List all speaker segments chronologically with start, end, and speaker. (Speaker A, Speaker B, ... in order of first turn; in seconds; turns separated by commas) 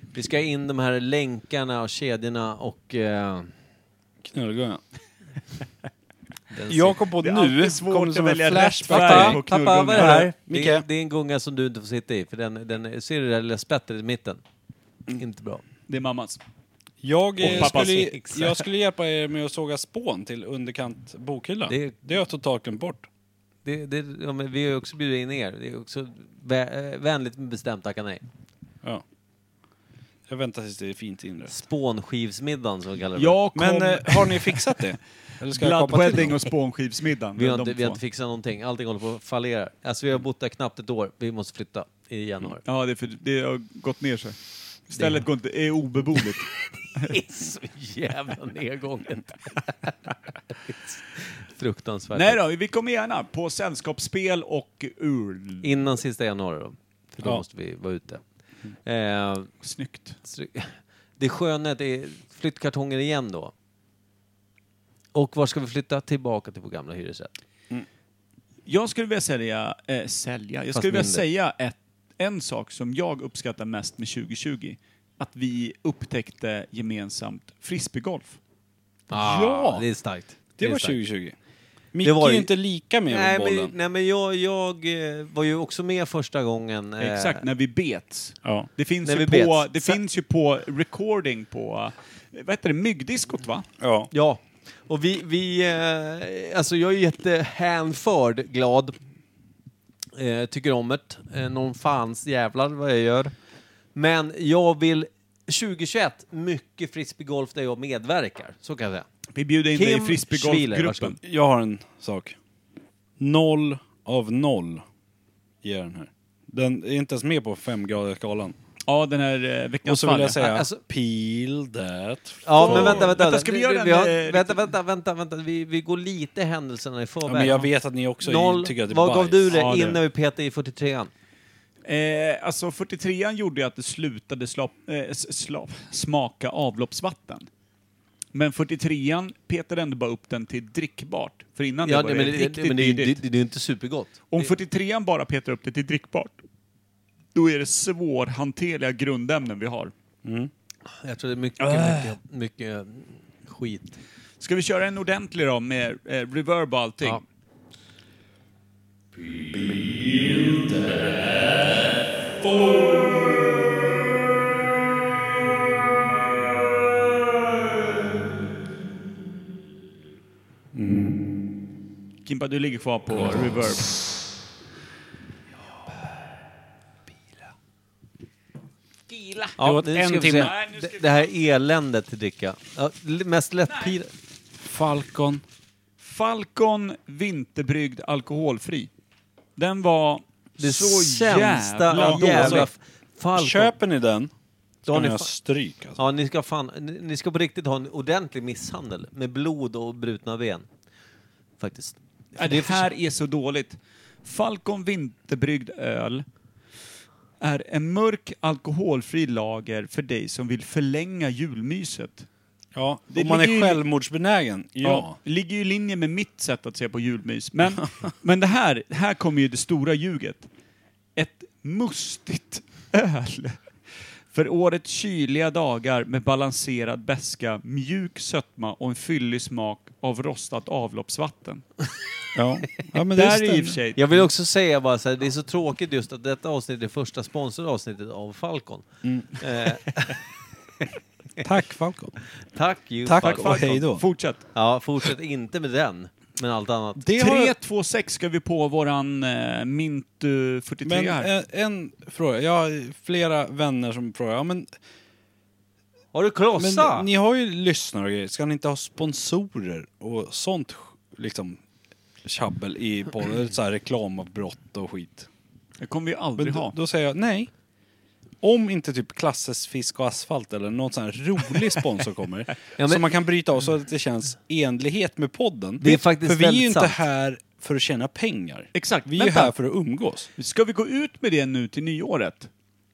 Speaker A: 0.1-3.5, Speaker B: 4.2-4.8, Speaker A: 6.5-7.0, Speaker B: 6.7-10.8, Speaker C: 7.2-10.3, Speaker A: 8.9-14.4, Speaker A: 15.1-15.6, Speaker C: 15.9-16.4, Speaker B: 17.0-23.1, Speaker C: 17.4-18.2, Speaker A: 17.4-18.5, Speaker A: 21.7-22.0, Speaker A: 23.6-28.2, Speaker B: 30.3-31.6, Speaker A: 31.5-33.4, Speaker C: 33.1-34.8, Speaker B: 33.5-36.4, Speaker C: 35.5-38.0, Speaker A: 37.4-42.6, Speaker C: 42.6-47.1, Speaker A: 45.0-45.2, Speaker A: 47.0-50.0, Speaker A: 50.7-52.4, Speaker C: 52.1-55.7, Speaker A: 55.6-58.2, Speaker A: 58.8-59.5, Speaker C: 59.6-60.2, Speaker A: 60.2-63.5, Speaker A: 65.1-67.3, Speaker C: 68.7-78.4, Speaker A: 70.7-71.2, Speaker A: 79.1-81.0, Speaker B: 79.1-79.8, Speaker B: 80.6-81.3, Speaker B: 81.9-83.7, Speaker A: 82.0-82.5, Speaker A: 83.1-87.4, Speaker C: 87.0-93.7, Speaker B: 88.4-88.7, Speaker A: 89.0-90.0, Speaker B: 93.8-94.1, Speaker A: 94.1-99.0, Speaker A: 100.1-103.3, Speaker A: 103.9-109.1, Speaker C: 109.3-111.2, Speaker A: 109.7-111.2, Speaker B: 111.2-112.4, Speaker B: 113.2-114.8, Speaker B: 115.6-118.5, Speaker C: 118.9-120.4, Speaker B: 119.8-123.1, Speaker A: 120.4-120.8, Speaker A: 122.4-131.1, Speaker C: 122.6-124.6, Speaker B: 127.2-129.9, Speaker C: 129.5-130.0, Speaker C: 131.8-137.5, Speaker C: 138.3-143.2, Speaker A: 141.8-144.5, Speaker C: 144.3-146.4, Speaker C: 147.3-149.9, Speaker B: 150.2-150.5, Speaker A: 151.0-154.0, Speaker C: 154.4-157.2, Speaker B: 159.1-163.3, Speaker B: 170.7-171.2, Speaker C: 172.2-173.9, Speaker C: 179.1-179.6, Speaker A: 179.6-184.1, Speaker B: 179.6-180.5, Speaker C: 180.2-181.3, Speaker B: 184.6-185.4, Speaker C: 186.0-188.9, Speaker C: 189.6-192.7, Speaker A: 190.6-193.7, Speaker B: 191.9-192.7, Speaker B: 193.3-194.3, Speaker B: 194.8-196.0, Speaker A: 194.9-195.3, Speaker A: 195.9-200.7, Speaker A: 201.6-202.9, Speaker C: 202.3-206.2, Speaker C: 207.4-212.3, Speaker B: 212.7-215.2, Speaker C: 213.1-213.8, Speaker C: 214.8-220.5, Speaker C: 221.2-223.6, Speaker C: 224.3-231.8, Speaker B: 232.3-233.8, Speaker C: 232.8-234.1, Speaker A: 233.9-240.2, Speaker B: 239.0-239.4, Speaker B: 241.4-242.2, Speaker A: 242.5-243.6, Speaker B: 243.0-244.1, Speaker C: 243.2-244.5, Speaker A: 244.5-247.1, Speaker B: 247.0-247.5, Speaker C: 247.1-251.3, Speaker B: 250.8-254.7, Speaker A: 256.1-257.1, Speaker B: 256.6-261.6, Speaker B: 262.2-265.3, Speaker C: 265.8-266.8, Speaker B: 266.4-267.5, Speaker B: 268.4-280.3, Speaker A: 272.8-273.0, Speaker A: 275.8-277.0, Speaker C: 278.7-279.5, Speaker C: 280.4-282.5